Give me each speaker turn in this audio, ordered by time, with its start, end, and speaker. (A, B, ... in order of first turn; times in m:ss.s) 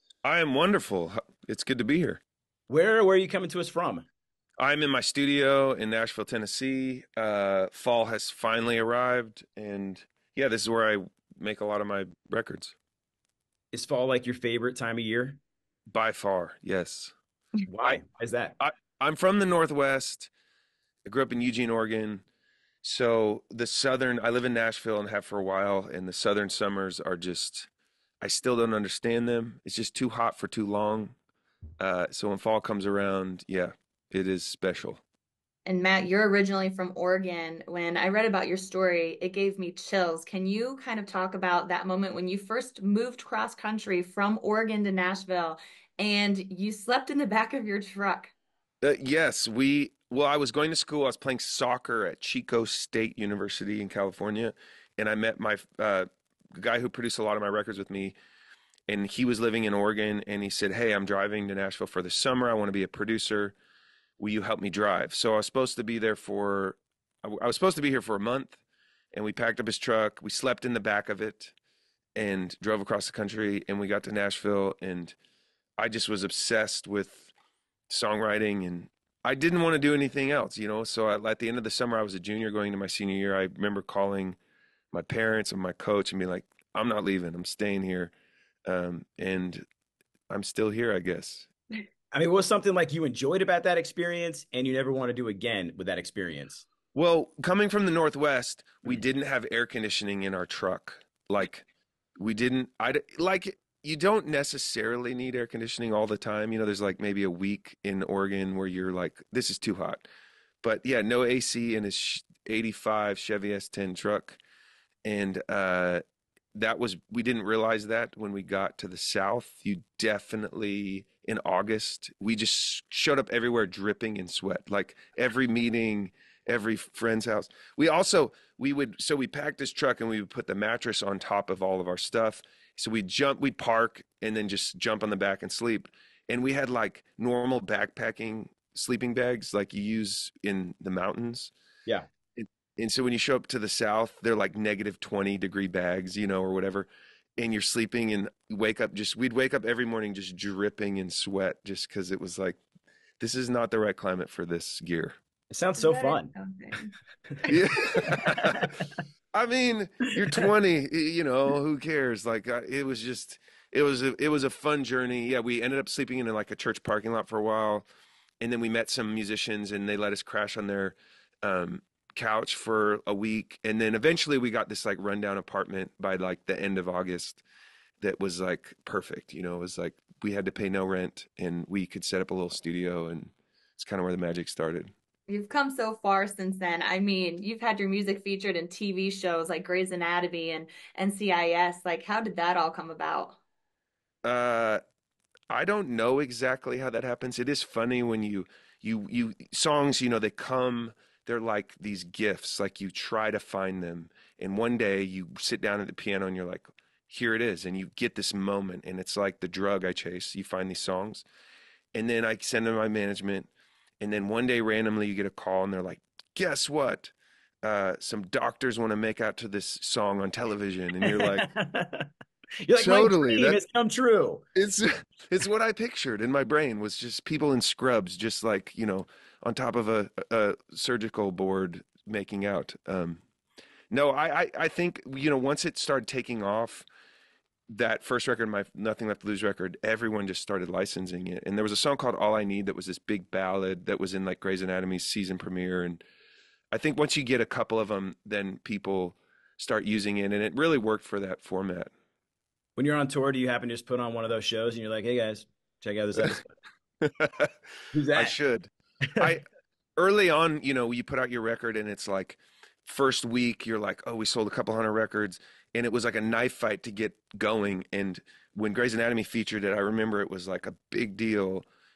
0:00.2-0:02.2 A
0:02.7-0:04.1 B
0:04.6-0:12.8 A
0:13.7-0:15.4 B
0:15.9-0:17.2 A
0:17.7-0:18.6 B
0:18.6-0:20.3 A
0:21.0-0:22.2 A
0:22.8-0:27.7 A
0:28.2-0:31.2 A
0:31.8-0:35.0 A
0:35.7-0:48.3 C
0:48.8-0:58.2 A
0:58.9-1:03.6 A
1:04.2-1:08.6 A
1:09.1-1:11.5 A
1:12.2-1:15.2 A
1:15.8-1:17.3 A
1:17.9-1:24.4 A
1:24.9-1:28.1 A
1:28.7-1:29.6 A
1:30.3-1:31.5 A
1:32.1-1:36.7 B
1:36.9-1:41.7 A
1:42.2-1:50.1 A
1:50.6-1:54.4 A
1:55.0-1:56.0 A
1:56.6-2:21.5 A
2:22.4-2:32.6 A
2:33.2-2:35.1 A
2:35.5-2:36.3 B
2:35.8-2:36.9 C
2:37.5-2:38.7 A
2:38.1-2:38.6 B
2:39.3-2:47.9 A
2:48.4-2:57.4 A
2:58.0-3:04.9 A
3:05.3-3:13.4 C
3:14.2-3:14.8 A
3:15.5-3:31.2 A
3:31.9-3:41.5 A
3:41.0-3:42.1 B
3:42.6-3:44.4 B
3:42.8-3:43.6 A
3:44.6-3:53.2 A
3:53.9-3:56.9 A
3:57.7-4:06.0 A
4:06.7-4:11.9 A
4:12.8-4:16.5 B
4:17.0-4:17.5 A
4:17.9-4:18.4 B
4:18.1-4:19.4 A
4:20.0-4:31.7 A